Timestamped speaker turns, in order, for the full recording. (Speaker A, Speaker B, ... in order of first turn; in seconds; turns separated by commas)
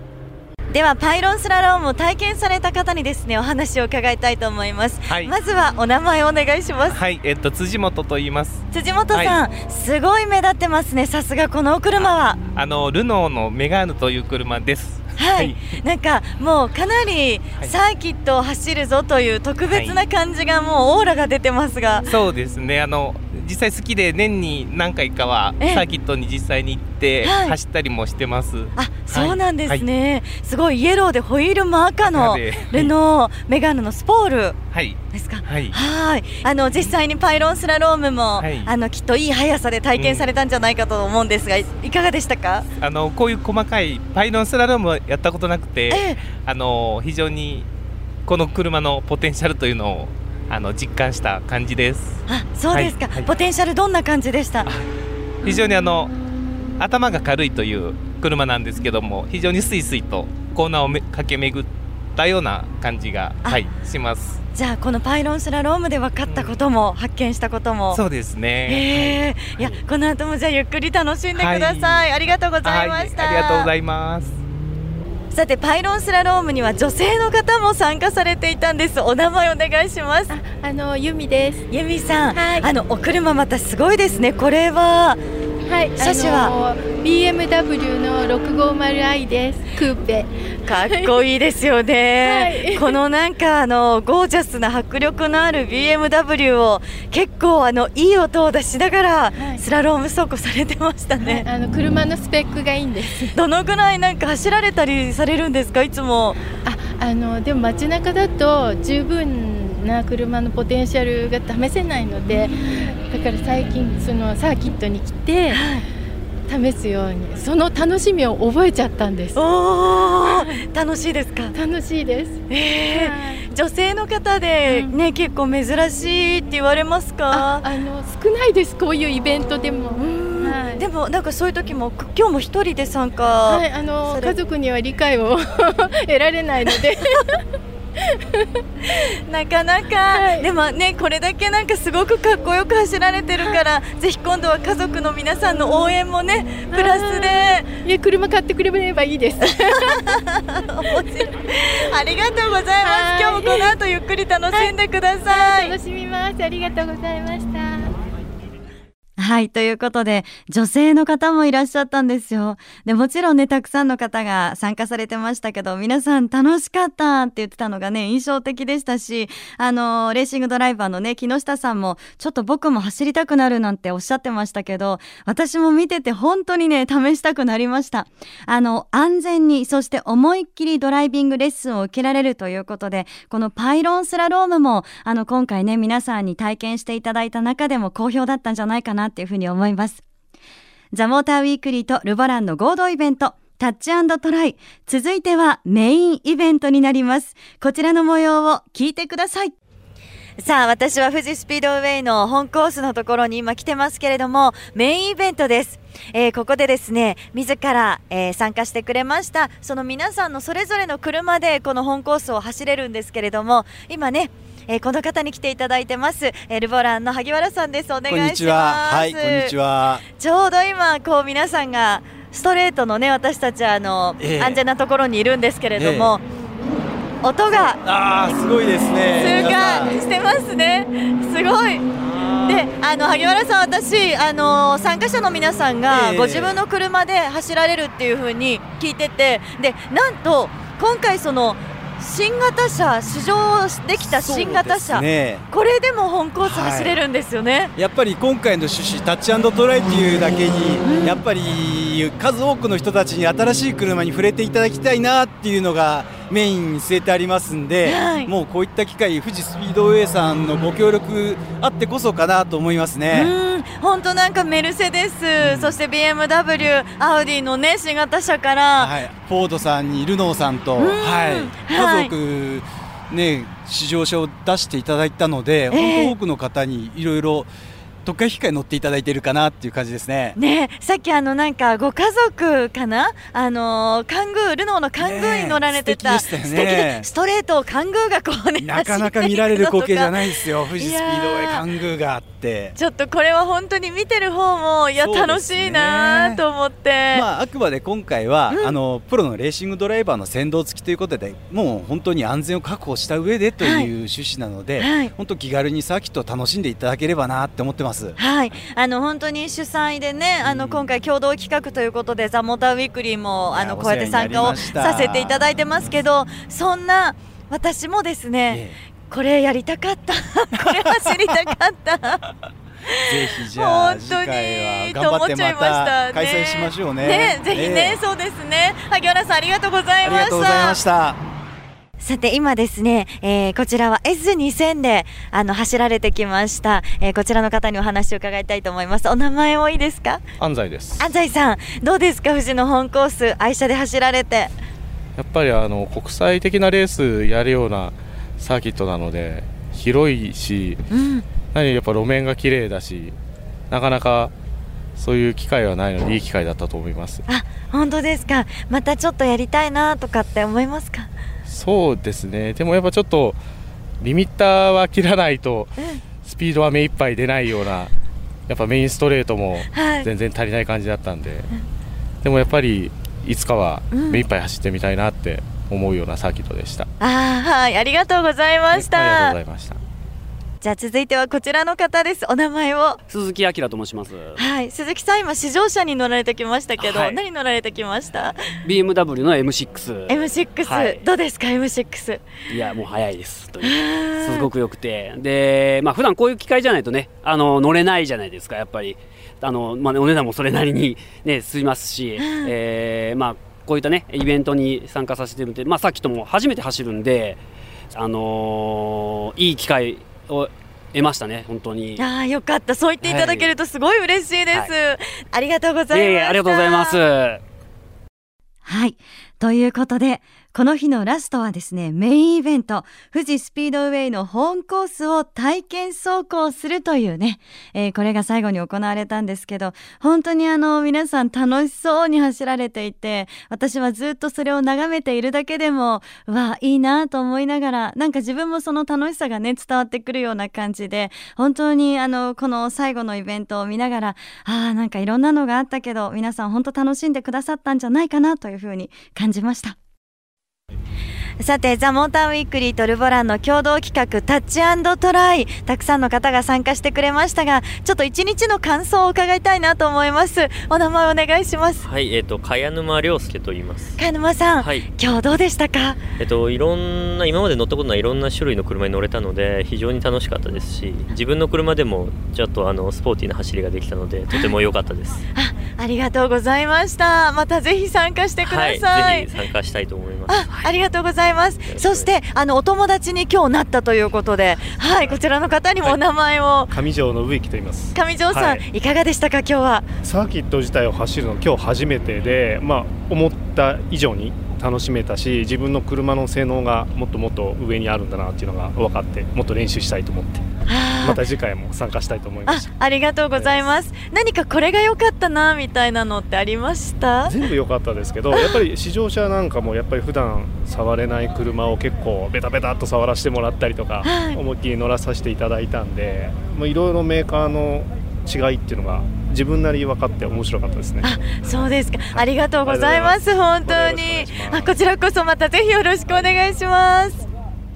Speaker A: 0.7-7.0, Speaker B: 5.1-5.3, Speaker B: 6.9-9.4, Speaker A: 8.7-12.4, Speaker B: 12.0-15.8, Speaker A: 15.2-22.1, Speaker B: 19.7-20.0, Speaker B: 22.1-29.9, Speaker A: 25.6-25.9, Speaker A: 27.2-27.6, Speaker A: 28.8-34.6, Speaker B: 32.0-32.9, Speaker B: 34.7-35.8, Speaker A: 35.1-42.7, Speaker B: 38.4-38.7, Speaker B: 40.0-40.3, Speaker B: 42.8-47.7, Speaker A: 45.9-46.2, Speaker B: 48.3-53.3, Speaker A: 52.3-54.7, Speaker B: 55.4-56.1, Speaker B: 56.8-64.4, Speaker A: 64.5-68.0, Speaker B: 66.3-66.6, Speaker B: 67.9-69.8, Speaker A: 68.7-73.7, Speaker B: 71.3-72.1, Speaker B: 72.6-74.4, Speaker A: 75.3-80.3, Speaker C: 80.3-81.7, Speaker A: 81.7-85.2, Speaker C: 82.3-82.7, Speaker C: 85.7-91.2, Speaker A: 86.0-86.5, Speaker A: 90.7-101.5, Speaker C: 92.2-93.0, Speaker C: 99.4-99.6, Speaker C: 101.2-103.4, Speaker A: 103.3-106.4, Speaker C: 106.7-115.8, Speaker A: 115.5-115.8, Speaker C: 116.5-119.4, Speaker A: 119.3-121.5, Speaker C: 120.2-120.6, Speaker C: 121.5-123.5, Speaker A: 122.5-127.7, Speaker C: 124.7-125.0, Speaker C: 127.3-130.9, Speaker A: 130.0-134.4, Speaker C: 133.5-137.5, Speaker C: 138.1-138.6, Speaker A: 138.8-147.8, Speaker C: 140.1-140.5, Speaker C: 146.7-150.1, Speaker A: 149.4-155.8, Speaker C: 152.8-153.8, Speaker C: 154.5-157.9, Speaker A: 159.2-190.0, Speaker A: 190.9-199.6, Speaker A: 200.4-219.5, Speaker D: 218.1-220.0, Speaker A: 220.1-226.2, Speaker D: 224.2-224.6, Speaker D: 225.8-226.2, Speaker A: 227.2-227.8, Speaker D: 227.8-230.0, Speaker A: 229.2-231.9, Speaker D: 232.0-232.7, Speaker A: 232.4-247.7, Speaker D: 235.9-236.6, Speaker D: 243.9-245.4, Speaker D: 246.4-247.0, Speaker D: 247.8-263.3, Speaker A: 250.8-251.2, Speaker A: 257.8-258.3, Speaker A: 263.1-269.0, Speaker D: 265.4-265.8, Speaker D: 268.8-277.5, Speaker A: 270.8-272.1, Speaker A: 275.7-276.1, Speaker D: 278.1-280.4, Speaker A: 280.4-291.7, Speaker D: 285.0-287.1, Speaker D: 288.6-292.8, Speaker A: 292.8-297.2, Speaker D: 295.0-296.4, Speaker D: 297.1-308.2, Speaker A: 303.6-303.9, Speaker A: 304.8-305.1, Speaker A: 308.2-322.3, Speaker D: 310.4-310.8, Speaker D: 313.5-315.5, Speaker D: 318.5-318.8, Speaker A: 322.9-330.8, Speaker D: 323.1-328.0, Speaker D: 330.0-331.2, Speaker A: 332.0-340.2, Speaker E: 340.4-341.1, Speaker A: 341.0-344.5, Speaker E: 345.2-350.8, Speaker A: 350.9-351.2, Speaker E: 351.5-353.2, Speaker E: 353.7-354.3, Speaker E: 355.0-357.2, Speaker A: 357.3-361.1, Speaker E: 361.5-363.4, Speaker E: 364.0-367.9, Speaker E: 368.5-371.5, Speaker A: 369.7-370.1, Speaker E: 372.2-376.9, Speaker A: 373.9-374.2, Speaker A: 377.0-379.4, Speaker E: 378.7-379.8, Speaker A: 380.6-383.0, Speaker F: 383.1-384.4, Speaker A: 384.4-388.4, Speaker F: 386.8-387.2, Speaker F: 388.6-391.0, Speaker A: 390.1-392.2, Speaker F: 392.5-407.4, Speaker A: 393.6-394.5, Speaker A: 402.2-402.5, Speaker F: 407.9-412.1, Speaker A: 412.0-417.0, Speaker F: 413.0-413.6, Speaker F: 415.9-417.4, Speaker A: 418.6-449.8, Speaker A: 451.4-461.9, Speaker G: 461.8-464.0, Speaker A: 464.0-466.0, Speaker G: 464.6-464.9, Speaker G: 466.2-475.2, Speaker A: 475.4-479.3, Speaker G: 478.4-480.8, Speaker A: 480.3-486.8, Speaker G: 481.6-482.1, Speaker H: 486.7-488.6, Speaker A: 487.9-489.9, Speaker H: 490.0-500.4, Speaker A: 500.7-501.2, Speaker H: 501.0-502.7, Speaker A: 502.5-507.4, Speaker H: 503.3-503.7, Speaker H: 507.2-521.5, Speaker A: 508.3-508.6, Speaker A: 514.0-514.4, Speaker A: 521.0-527.2, Speaker H: 522.0-524.8